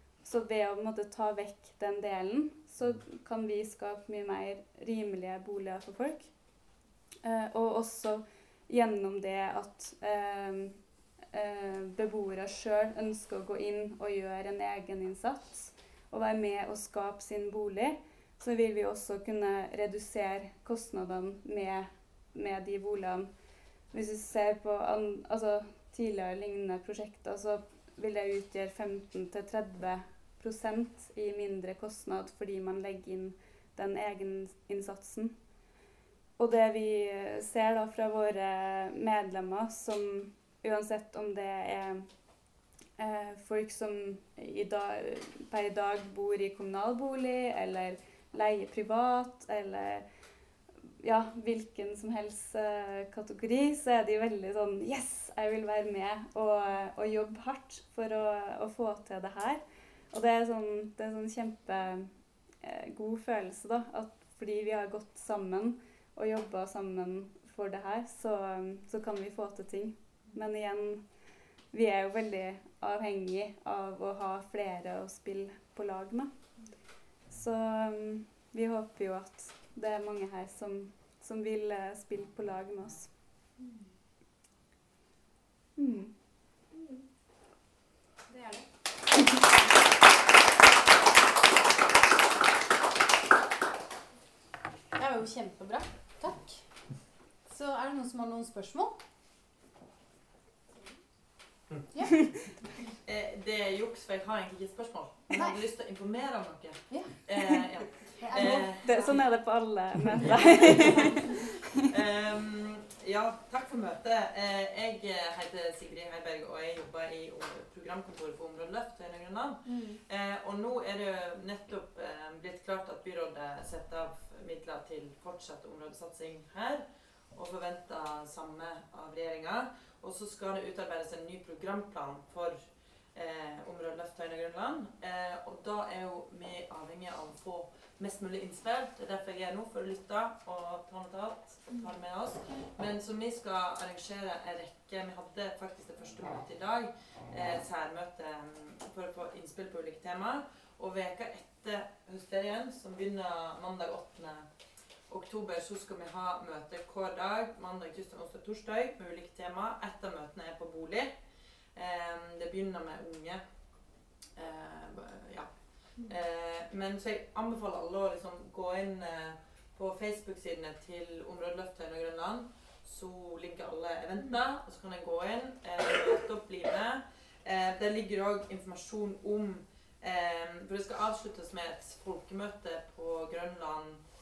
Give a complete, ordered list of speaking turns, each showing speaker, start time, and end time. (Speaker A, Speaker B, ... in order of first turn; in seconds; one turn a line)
Speaker A: 0.2-6.3
Speaker A: 7.2-23.3
Speaker A: 23.9-35.3
Speaker A: 36.4-42.1
Speaker A: 43.0-50.1
Speaker A: 51.0-71.1
Speaker A: 71.7-76.5
Speaker A: 77.3-83.1
Speaker B: 83.6-83.9
Speaker A: 85.8-86.1
Speaker B: 86.7-87.0
Speaker B: 88.3-88.7
Speaker B: 95.0-96.6
Speaker B: 97.5-99.0
Speaker C: 103.0-109.3
Speaker B: 105.3-105.6
Speaker B: 106.9-107.2
Speaker B: 108.2-109.2
Speaker A: 108.8-111.6
Speaker C: 110.5-110.8
Speaker B: 110.6-111.3
Speaker C: 111.9-154.5
Speaker B: 119.7-120.0
Speaker C: 155.1-161.1
Speaker C: 161.7-163.5
Speaker C: 164.3-184.1